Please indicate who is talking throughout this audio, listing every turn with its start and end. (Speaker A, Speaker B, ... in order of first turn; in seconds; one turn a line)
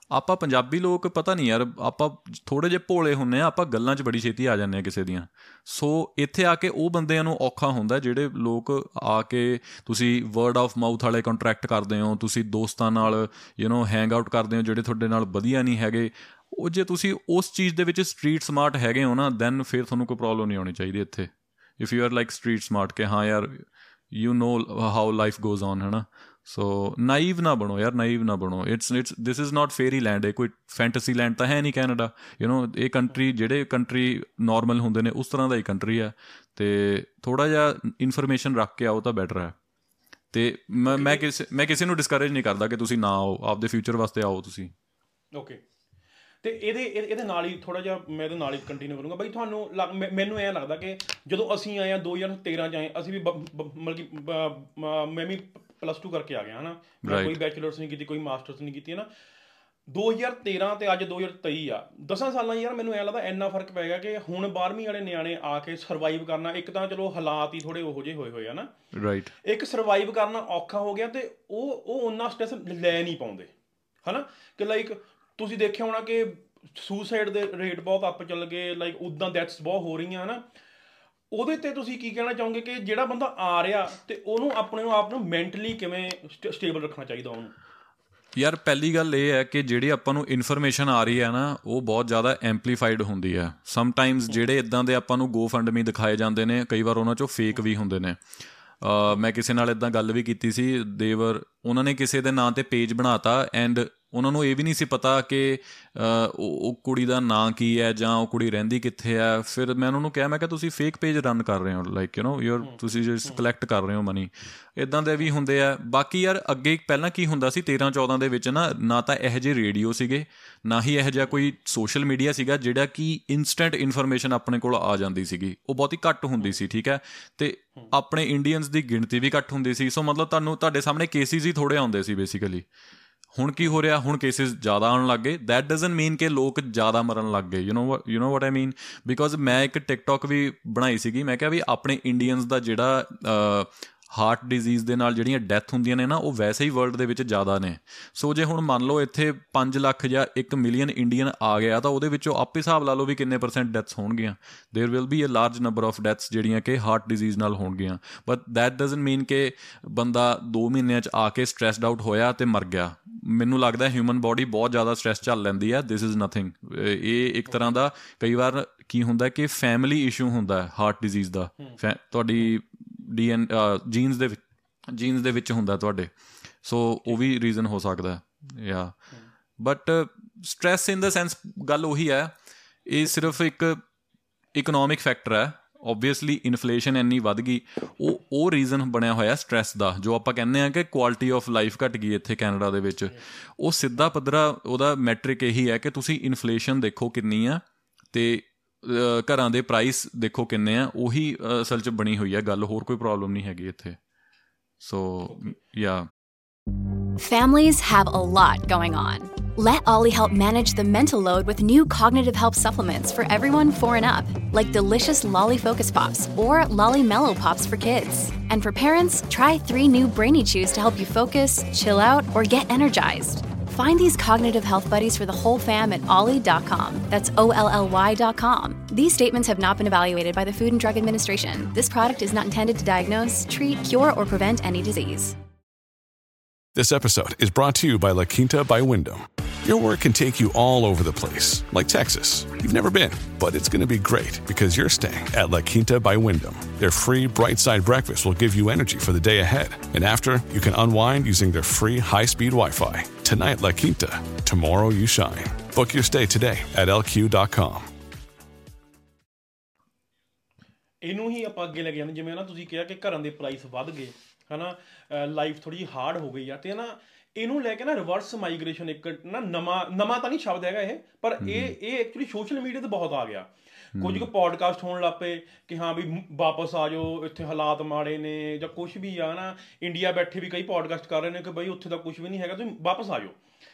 Speaker A: 0.1-39.5
Speaker A: 40.3-44.7
Speaker B: 40.9-41.2
Speaker B: 45.3-45.6
Speaker B: 46.4-59.1
Speaker A: 57.0-57.4
Speaker B: 59.9-68.7
Speaker A: 68.9-69.3
Speaker B: 69.4-73.5
Speaker B: 74.0-80.4
Speaker B: 81.3-87.5
Speaker A: 88.3-98.2
Speaker A: 98.8-132.7
Speaker B: 112.6-113.4
Speaker A: 133.3-176.1
Speaker B: 167.5-167.7
Speaker A: 176.6-178.9
Speaker A: 179.6-182.3
Speaker A: 182.8-183.8
Speaker A: 184.5-204.0
Speaker A: 204.8-206.1
Speaker B: 205.3-205.5
Speaker C: 207.2-235.3
Speaker D: 236.7-257.9
Speaker B: 261.0-283.4
Speaker A: 271.4-271.7
Speaker A: 273.9-274.3